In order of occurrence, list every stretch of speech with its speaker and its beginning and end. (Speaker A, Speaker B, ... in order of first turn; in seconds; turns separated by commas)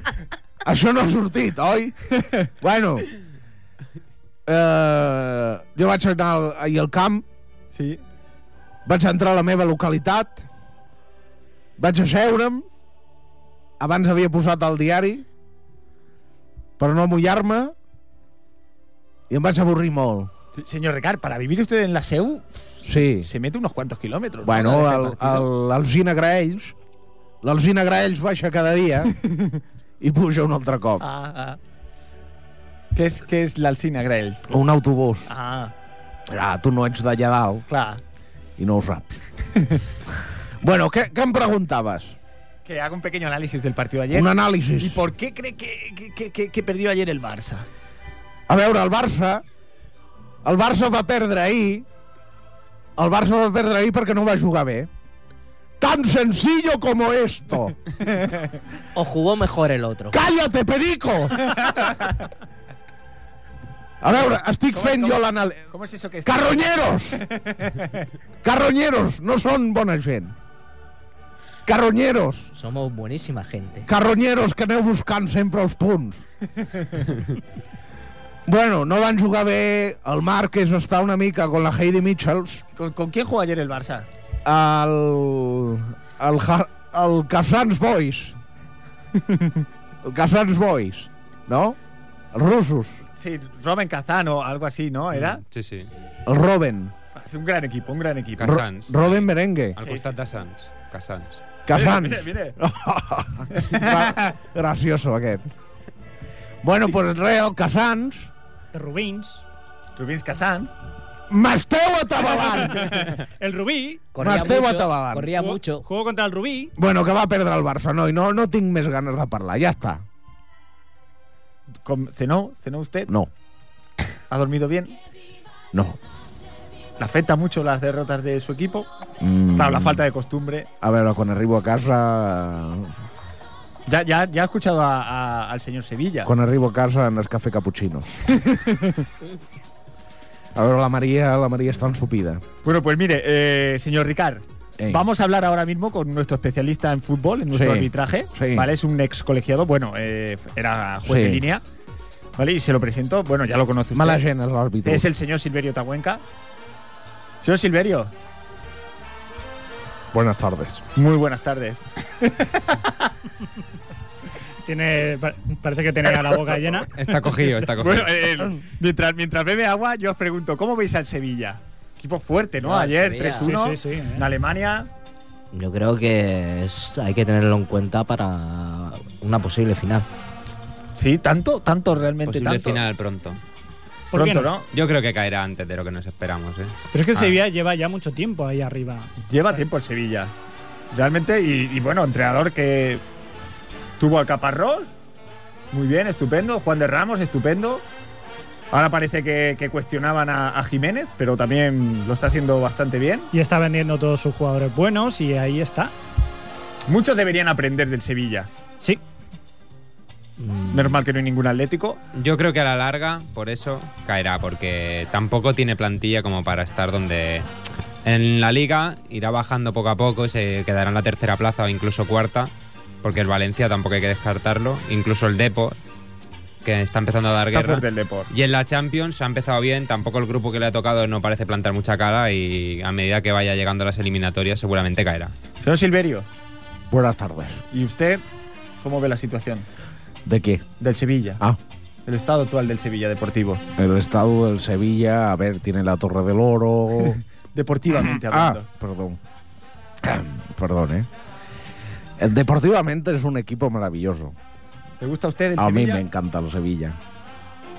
Speaker A: 0.6-3.1, Speaker A: 4.5-7.2, Speaker B: 7.7-8.0, Speaker A: 8.8-10.4, Speaker A: 11.8-12.7, Speaker A: 13.8-15.2, Speaker A: 16.8-17.7, Speaker A: 19.3-20.3, Speaker B: 20.6-22.6, Speaker A: 22.8-23.3, Speaker B: 23.2-25.5, Speaker A: 24.4-26.7, Speaker A: 27.4-29.1, Speaker B: 29.3-29.6, Speaker A: 30.0-31.0, Speaker B: 31.0-31.6, Speaker B: 32.9-34.5, Speaker A: 34.5-35.3, Speaker B: 35.3-35.7, Speaker A: 36.3-37.6, Speaker B: 37.7-38.0, Speaker A: 38.6-39.2, Speaker A: 40.6-42.1, Speaker B: 42.6-47.6, Speaker A: 44.1-45.0, Speaker A: 48.5-49.4, Speaker A: 50.4-51.9, Speaker A: 53.0-54.9, Speaker A: 55.8-57.7, Speaker B: 58.0-58.5, Speaker C: 58.9-60.2, Speaker A: 60.1-61.5, Speaker B: 61.5-62.1, Speaker A: 64.0-65.7, Speaker B: 64.7-68.1, Speaker A: 66.2-67.2, Speaker A: 68.4-70.3, Speaker A: 71.7-72.5, Speaker C: 72.5-73.9, Speaker A: 73.8-76.2, Speaker A: 78.5-82.6, Speaker B: 82.7-84.1, Speaker A: 84.4-88.4, Speaker A: 90.0-91.8, Speaker A: 92.3-93.0, Speaker B: 93.2-95.4, Speaker D: 95.4-95.9, Speaker A: 96.2-96.9, Speaker B: 97.1-98.6, Speaker D: 98.4-99.2, Speaker A: 98.4-99.8, Speaker D: 99.8-101.4, Speaker B: 99.8-100.1, Speaker A: 101.7-105.4, Speaker B: 101.7-102.6, Speaker B: 103.5-104.3, Speaker A: 106.6-108.3, Speaker E: 108.7-109.4, Speaker B: 110.0-110.8, Speaker A: 111.3-113.0, Speaker B: 112.7-113.1, Speaker E: 113.4-114.0, Speaker C: 114.1-115.8, Speaker A: 114.2-115.3, Speaker E: 115.3-116.7, Speaker A: 116.8-120.0, Speaker B: 121.8-123.1, Speaker B: 124.3-125.0, Speaker A: 125.7-126.0, Speaker B: 127.0-128.9, Speaker A: 129.2-130.0, Speaker B: 129.5-130.7, Speaker A: 130.8-132.9, Speaker B: 133.9-136.3, Speaker A: 136.2-138.1, Speaker B: 138.3-139.0, Speaker A: 140.5-142.4, Speaker B: 142.6-151.6, Speaker A: 144.8-145.0, Speaker A: 147.5-148.7, Speaker A: 151.0-151.4, Speaker B: 152.4-154.2, Speaker A: 153.9-155.1, Speaker B: 154.8-156.2, Speaker B: 157.4-158.1, Speaker A: 160.1-160.8, Speaker B: 160.9-163.1, Speaker E: 164.6-166.9, Speaker B: 166.1-166.6, Speaker D: 166.9-168.3, Speaker B: 167.2-174.9, Speaker C: 172.6-173.5, Speaker E: 173.4-174.2, Speaker C: 175.5-180.1, Speaker B: 181.0-182.8, Speaker D: 182.2-183.4, Speaker E: 184.1-184.6, Speaker B: 184.1-184.7, Speaker D: 184.7-187.4, Speaker E: 186.9-189.1, Speaker B: 189.3-190.3, Speaker B: 190.9-193.0, Speaker B: 194.0-194.9, Speaker B: 195.7-197.8, Speaker B: 198.7-203.3, Speaker E: 203.3-205.9, Speaker B: 206.9-208.5, Speaker C: 210.4-211.0, Speaker B: 210.7-212.0, Speaker D: 212.1-217.5, Speaker D: 218.0-222.5, Speaker D: 223.0-225.8, Speaker D: 226.6-235.3, Speaker B: 227.5-228.3, Speaker B: 235.6-236.2, Speaker A: 236.9-237.6, Speaker B: 237.7-238.2, Speaker B: 238.8-239.7, Speaker A: 240.2-240.6, Speaker B: 240.8-241.4, Speaker B: 242.1-243.6, Speaker A: 243.8-247.2, Speaker B: 247.5-248.7, Speaker A: 247.9-249.2, Speaker A: 250.0-251.1, Speaker A: 252.2-254.3, Speaker B: 255.0-256.0, Speaker A: 255.6-257.0